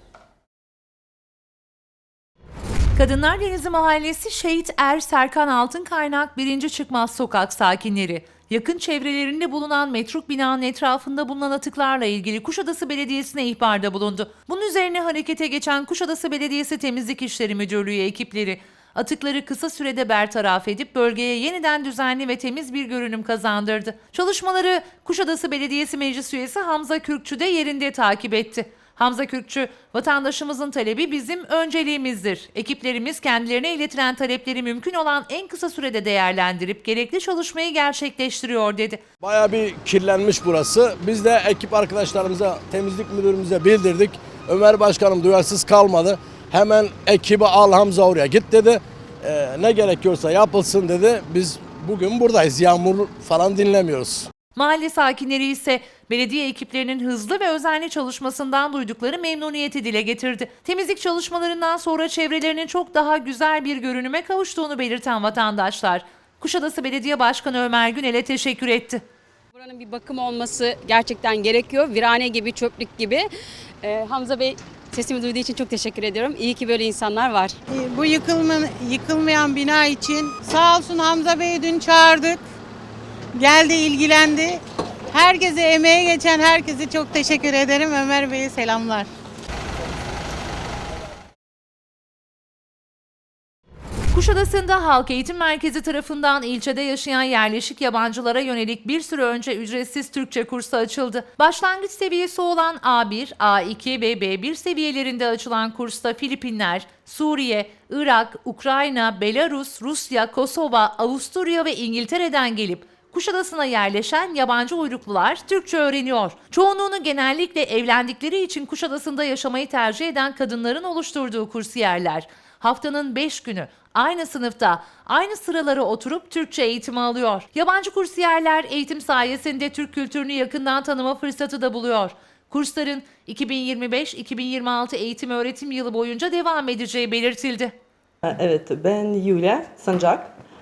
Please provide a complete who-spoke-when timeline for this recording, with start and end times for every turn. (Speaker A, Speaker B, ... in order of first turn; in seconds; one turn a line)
Speaker A: 2.9-39.0
Speaker B: 39.2-54.3
Speaker A: 54.5-69.0
Speaker C: 69.5-73.3
Speaker C: 73.8-77.6
Speaker D: 77.9-82.3
Speaker D: 83.4-84.5
Speaker D: 85.2-89.0
Speaker A: 94.1-137.7
Speaker E: 138.2-140.3